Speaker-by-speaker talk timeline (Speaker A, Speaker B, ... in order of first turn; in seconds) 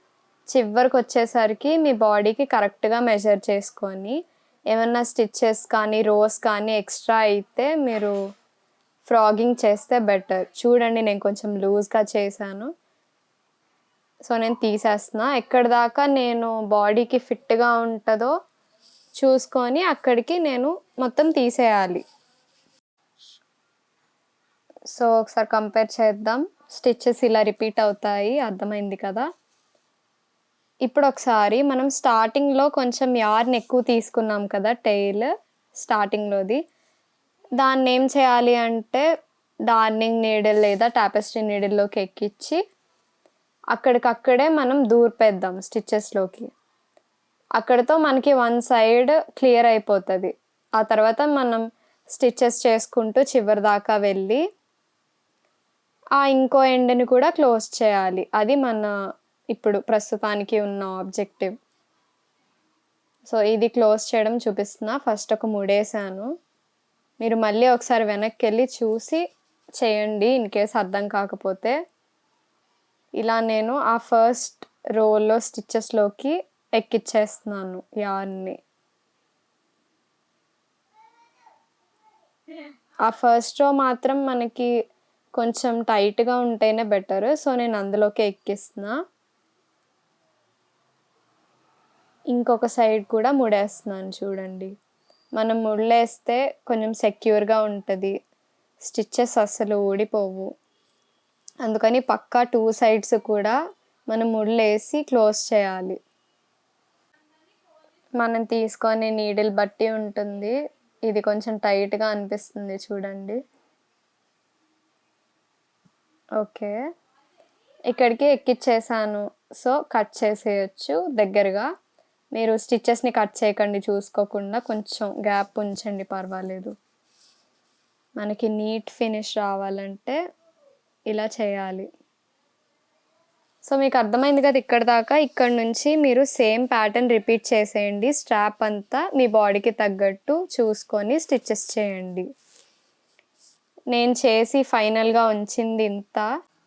Speaker A: 0.5-4.2, 4.7-8.1, 9.0-12.7, 14.2-18.3, 19.2-22.0, 24.9-29.3, 30.9-36.6, 37.6-39.0, 39.7-42.6, 43.7-46.5, 47.6-51.6, 52.1-54.4, 56.2-58.9, 59.5-61.5, 63.2-66.3, 67.2-69.2, 69.8-71.8, 73.2-78.6, 83.0-84.7, 85.3-88.9, 92.3-94.7, 95.4-98.1, 98.8-100.5, 101.6-103.5, 104.1-106.0, 108.2-110.5, 111.1-113.4, 116.4-116.7, 117.9-121.7, 122.3-126.7, 128.2-130.2, 131.1-131.9, 133.6-142.2, 143.9-146.3